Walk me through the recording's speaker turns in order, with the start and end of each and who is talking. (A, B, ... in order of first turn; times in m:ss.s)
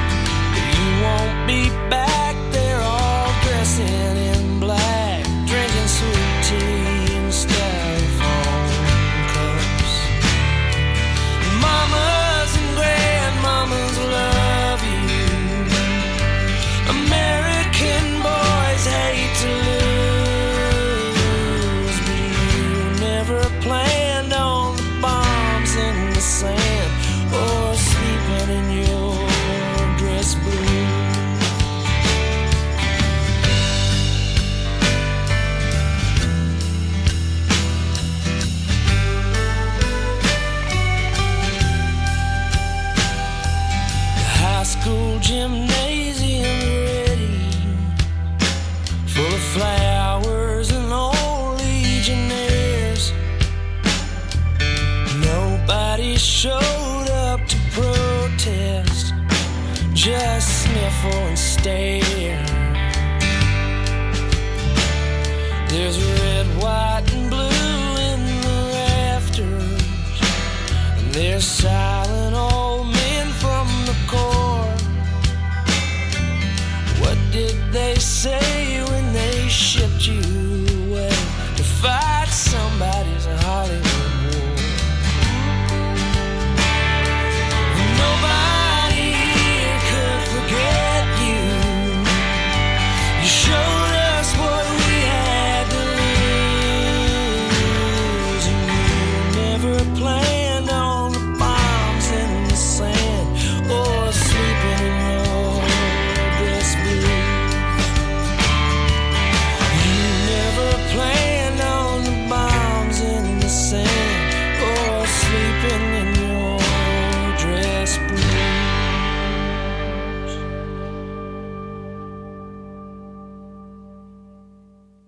0:00.5-0:10.2 A
0:11.4-0:16.2 A
0:16.8-0:31.5 A
0:44.2-0:47.9 A
0:49.0-0:53.2 A
0:55.1-0:59.2 A
0:59.9-1:02.9 A
1:05.6-1:10.3 A
1:10.9-1:14.9 A
1:16.9-1:25.0 A
1:27.7-1:32.5 A
1:33.2-1:47.7 A
1:49.7-1:59.5 A